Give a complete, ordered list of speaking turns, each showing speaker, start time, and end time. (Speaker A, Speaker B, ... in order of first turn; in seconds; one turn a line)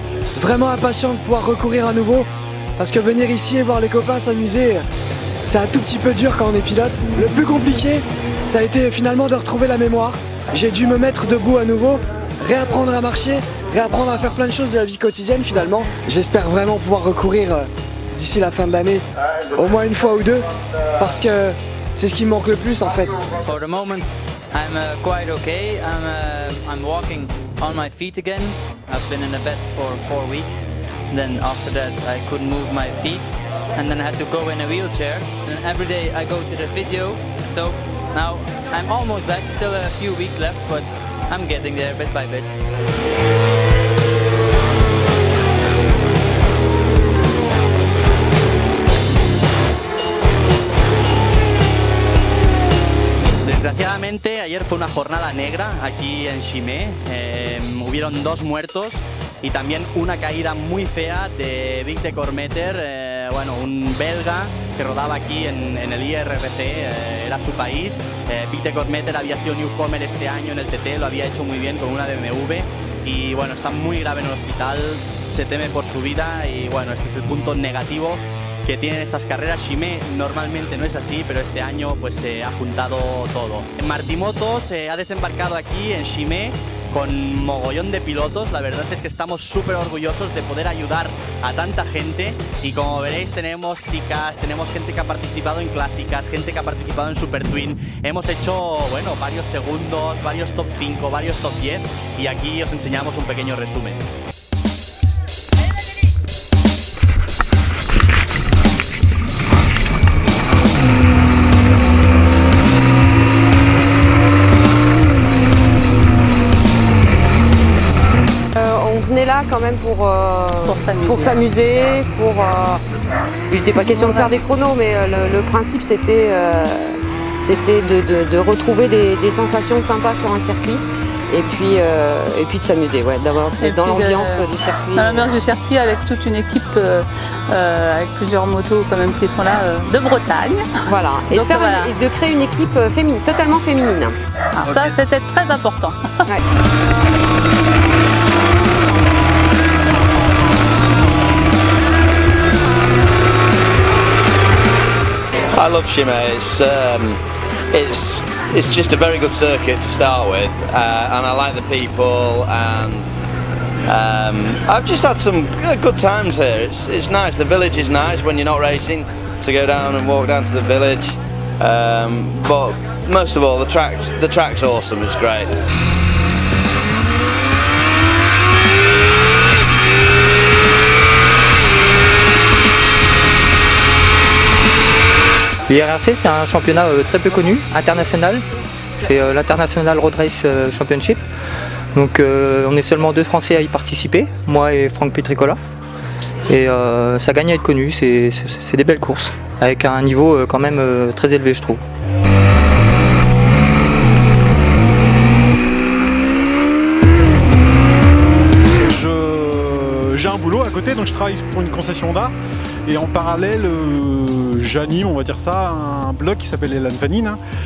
Speaker A: 0.4-4.9
Speaker A: 5.5-20.4
Speaker A: 21.0-23.1
Speaker B: 23.4-42.5
Speaker C: 53.4-104.0
Speaker D: 118.5-122.8
Speaker E: 120.7-121.4
Speaker D: 123.5-135.4
Speaker E: 123.9-124.3
Speaker E: 133.6-141.9
Speaker D: 140.8-144.2
Speaker E: 144.5-146.2
Speaker F: 155.5-163.1
Speaker F: 163.9-175.6
Speaker G: 185.7-188.4
Speaker G: 189.0-191.2
Speaker G: 191.9-195.6
Speaker G: 196.5-201.8
Speaker H: 208.8-212.3
Speaker H: 212.9-217.4